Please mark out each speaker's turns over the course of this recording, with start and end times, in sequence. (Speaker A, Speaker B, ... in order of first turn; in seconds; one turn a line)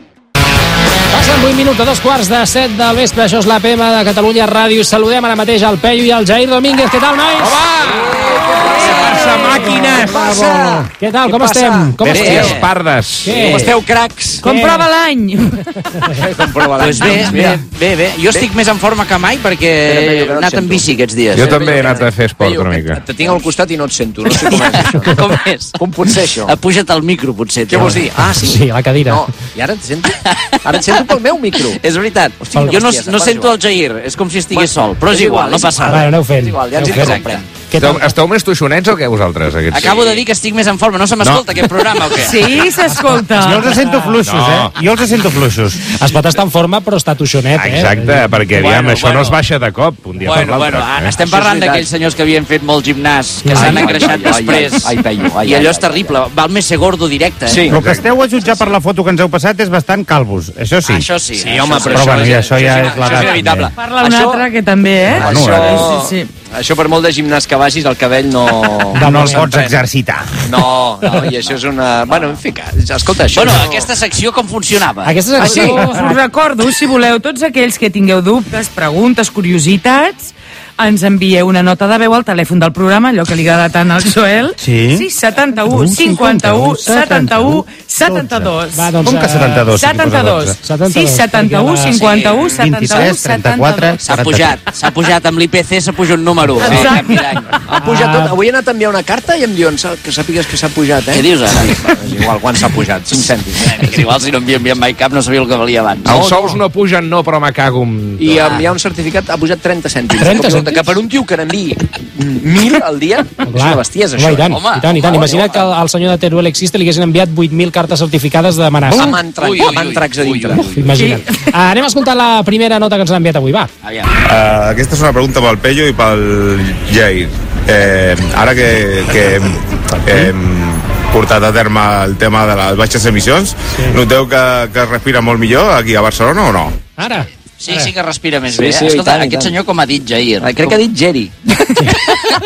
Speaker A: 1.1-7.6
Speaker B: 7.4-12.5
Speaker C: 8.9-10.1
Speaker A: 9.1-12.5
Speaker D: 12.0-12.3
Speaker E: 12.1-12.7
Speaker C: 12.1-13.5
Speaker A: 13.2-13.8
Speaker B: 13.2-14.4
Speaker A: 14.4-14.9
Speaker F: 14.4-15.6
Speaker B: 16.1-17.6
Speaker E: 16.8-21.6
Speaker B: 19.8-25.1
Speaker C: 21.3-23.0
Speaker E: 24.2-25.8
Speaker B: 25.8-26.5
Speaker E: 26.4-28.0
Speaker B: 27.7-31.8
Speaker A: 28.4-29.3
Speaker E: 30.2-31.0
Speaker E: 31.7-36.1
Speaker B: 32.4-33.5
Speaker B: 34.5-37.5
Speaker A: 35.9-38.1
Speaker E: 36.9-37.4
Speaker C: 37.8-40.2
Speaker E: 39.7-42.5
Speaker C: 41.2-42.4
Speaker F: 42.2-43.8
Speaker D: 43.4-46.0
Speaker A: 43.8-44.2
Speaker C: 44.2-44.7
Speaker A: 45.9-48.4
Speaker C: 47.5-51.2
Speaker E: 48.5-49.4
Speaker E: 50.2-57.7
Speaker B: 51.2-51.9
Speaker A: 53.4-53.8
Speaker B: 53.5-56.1
Speaker B: 57.5-57.8
Speaker D: 57.7-61.0
Speaker E: 60.8-63.7
Speaker B: 61.4-64.5
Speaker D: 61.7-63.7
Speaker F: 63.8-66.3
Speaker D: 65.1-65.9
Speaker B: 65.1-69.8
Speaker A: 68.9-69.5
Speaker D: 69.0-70.4
Speaker B: 70.4-73.9
Speaker E: 71.1-72.3
Speaker E: 73.3-75.7
Speaker A: 75.0-76.2
Speaker B: 75.4-75.9
Speaker F: 75.5-89.0
Speaker D: 84.6-85.1
Speaker D: 85.6-90.6
Speaker A: 88.7-89.7
Speaker F: 89.7-94.0
Speaker A: 90.6-92.0
Speaker E: 91.9-92.8
Speaker D: 92.5-94.6
Speaker E: 94.0-97.5
Speaker F: 96.6-97.2
Speaker B: 96.6-97.0
Speaker B: 97.7-103.9
Speaker A: 97.8-98.3
Speaker E: 101.1-101.9
Speaker E: 103.6-106.2
Speaker C: 106.0-108.6
Speaker B: 106.1-106.6
Speaker B: 108.2-114.6
Speaker A: 110.2-110.8
Speaker A: 113.4-119.2
Speaker E: 114.5-115.7
Speaker B: 118.8-121.2
Speaker E: 119.2-120.6
Speaker A: 120.5-123.7
Speaker F: 120.9-121.5
Speaker E: 123.8-124.1
Speaker G: 124.2-136.8
Speaker A: 133.7-134.0
Speaker A: 137.0-137.9
Speaker E: 137.6-140.8
Speaker B: 138.5-139.5
Speaker B: 140.4-142.0